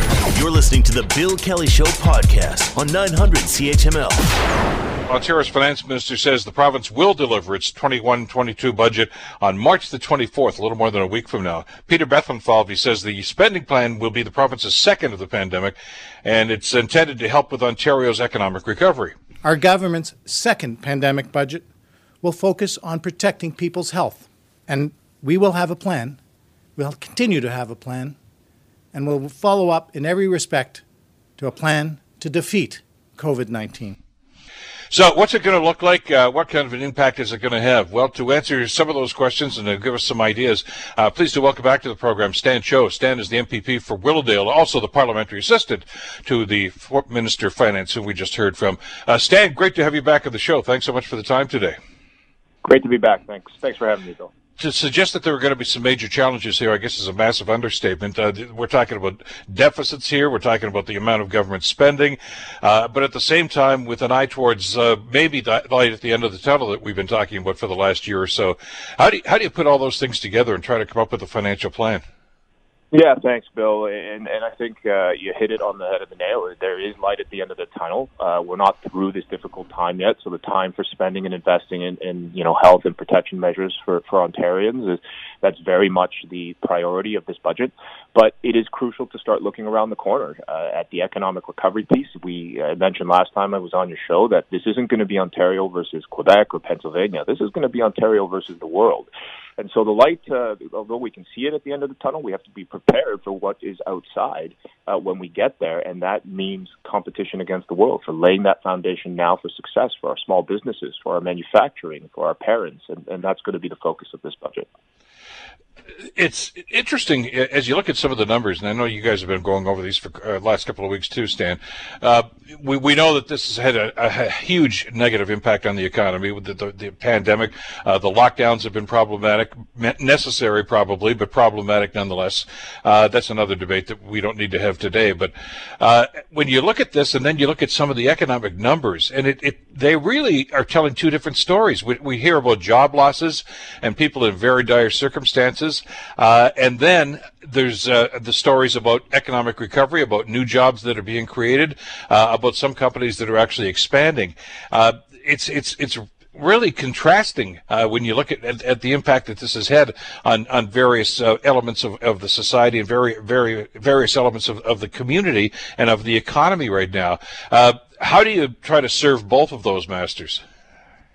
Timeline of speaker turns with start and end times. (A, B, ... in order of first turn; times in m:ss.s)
0:00.3-0:04.6 A
0:05.1-0:15.7 B
0:16.2-0:19.1 B
0:19.4-0:21.6 C
0:22.2-0:26.2 C
0:26.8-0:28.2 C
0:28.9-0:30.8 C
0:31.4-0:34.0 C
0:34.9-0:51.8 B
0:52.6-0:54.3 D
0:54.6-1:12.0 B
1:12.9-1:54.7 D
1:56.2-2:50.4 B